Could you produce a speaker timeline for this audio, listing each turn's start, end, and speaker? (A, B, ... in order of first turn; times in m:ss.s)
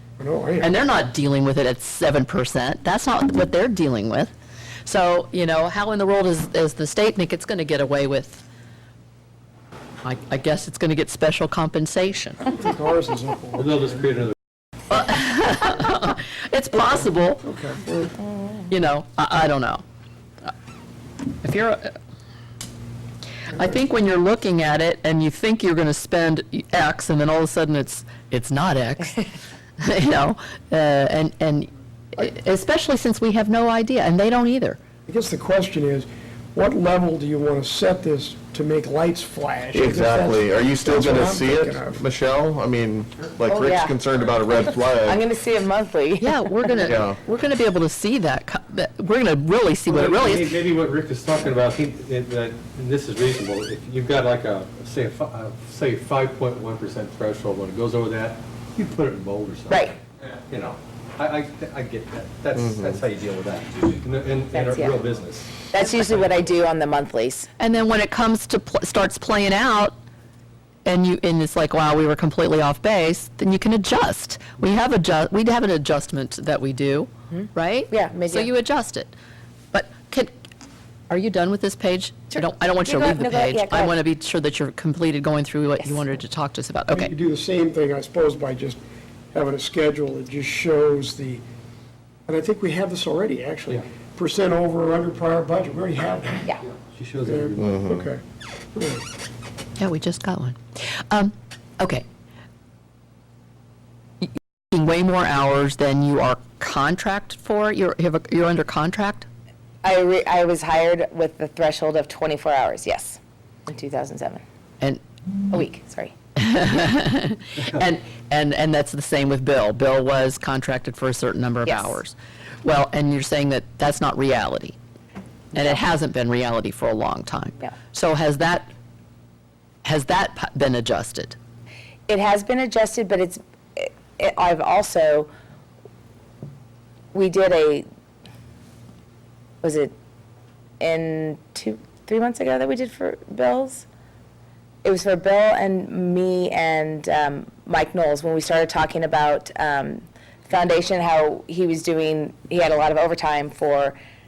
0:00.2-0:00.7 A
0:00.6-0:04.3 B
0:04.8-0:08.4 B
0:10.0-0:12.4 B
0:12.4-0:14.1 A
0:13.6-0:14.3 C
0:14.9-0:17.4 B
0:17.4-0:18.1 A
0:18.6-0:19.8 B
0:21.4-0:22.0 B
0:23.5-0:29.2 B
0:29.8-0:34.8 B
0:35.1-0:42.0 A
0:39.7-0:45.2 D
0:43.5-0:47.0 E
0:46.2-0:50.6 B
0:46.8-0:47.2 D
0:49.9-0:59.9 C
0:59.7-1:00.0 E
1:00.5-1:05.7 C
1:02.6-1:03.0 D
1:04.5-1:05.0 E
1:05.7-1:07.5 E
1:07.6-1:09.9 B
1:10.8-1:19.1 B
1:17.3-1:18.5 E
1:19.7-1:20.3 B
1:21.1-1:27.1 B
1:22.3-1:24.0 E
1:26.9-1:28.8 A
1:29.3-1:31.4 A
1:32.3-1:36.5 A
1:36.7-1:37.8 C
1:37.2-1:38.2 A
1:37.6-1:38.0 D
1:38.7-1:39.0 A
1:39.8-1:40.6 B
1:41.1-1:42.0 B
1:44.2-1:49.2 B
1:49.8-1:54.4 E
1:55.5-1:56.1 E
1:56.4-2:04.8 B
2:01.6-2:02.0 E
2:05.5-2:05.8 E
2:05.5-2:08.7 B
2:09.8-2:11.4 B
2:12.1-2:15.3 E
2:17.1-2:17.8 E
2:19.6-2:19.9 E
2:20.8-2:23.8 E
2:24.8-2:34.0 E